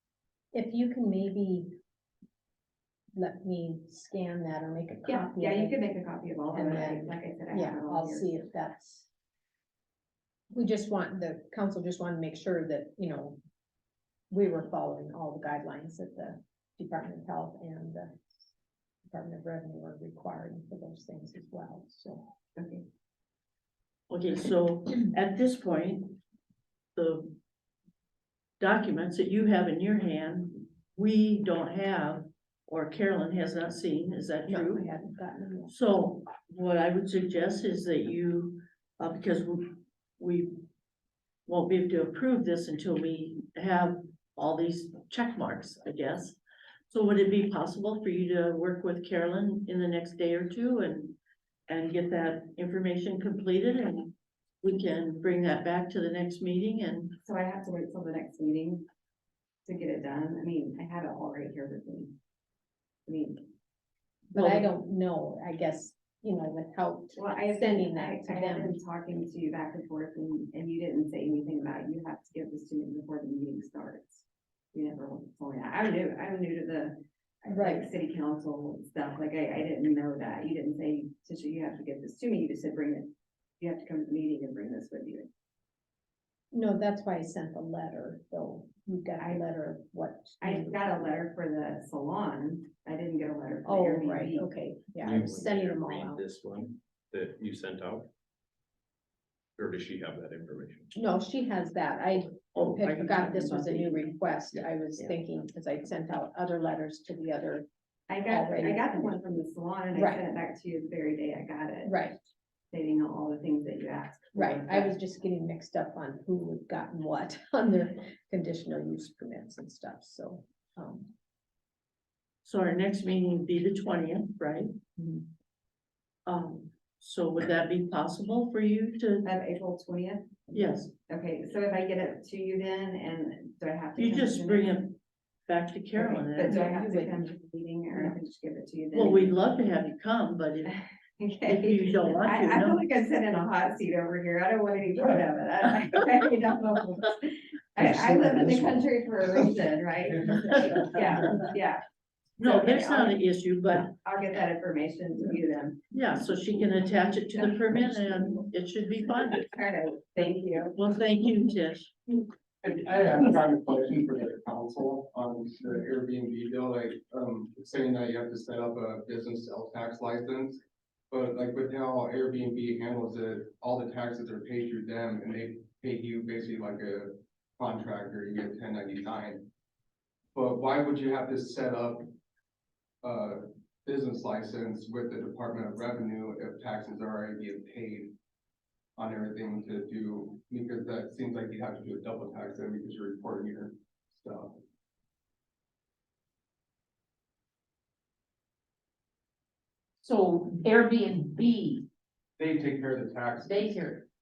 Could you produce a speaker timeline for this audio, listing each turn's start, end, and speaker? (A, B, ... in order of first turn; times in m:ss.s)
0:00.5-0:01.8 A
0:03.2-0:06.0 A
0:05.1-0:08.3 B
0:06.5-0:09.1 A
0:10.5-0:13.4 A
0:14.3-0:18.2 A
0:19.1-0:22.3 A
0:22.6-0:22.8 B
0:24.1-0:26.2 C
0:27.0-0:27.4 C
0:28.6-0:34.9 C
0:34.5-0:35.7 A
0:35.7-0:40.6 C
0:41.5-0:46.4 C
0:46.9-0:51.2 C
0:51.7-0:57.2 C
0:57.2-0:58.9 B
0:59.7-1:02.2 B
1:03.1-1:03.4 B
1:04.3-1:08.8 A
1:04.4-1:04.7 C
1:07.1-1:25.3 B
1:17.5-1:17.9 A
1:26.5-1:31.0 A
1:30.4-1:34.5 B
1:33.6-1:36.2 A
1:35.0-1:38.1 D
1:39.6-1:40.9 D
1:41.0-1:47.7 A
1:42.6-1:45.2 C
1:48.1-1:52.1 B
1:48.3-1:49.2 A
1:49.9-1:50.2 A
1:51.8-1:52.2 A
1:52.7-1:54.9 B
1:54.4-2:01.1 A
2:02.4-2:05.2 C
2:06.3-2:09.4 C
2:09.2-2:14.8 B
2:10.5-2:10.9 C
2:14.0-2:16.9 C
2:16.0-2:19.3 B
2:16.4-2:17.3 A
2:18.9-2:20.8 C
2:21.2-2:30.3 B
2:21.5-2:22.9 C
2:30.2-2:31.2 E
2:30.8-2:31.8 B
2:32.4-2:33.9 C
2:32.4-2:33.1 B
2:33.9-2:35.8 B
2:35.9-2:39.5 C
2:39.5-2:40.7 B
2:40.7-2:41.9 C
2:42.2-2:59.5 E
3:00.4-3:02.1 E
3:03.0-3:08.1 E
3:09.0-3:14.6 E
3:20.0-3:21.9 F
3:22.4-3:23.8 E
3:23.4-3:24.1 F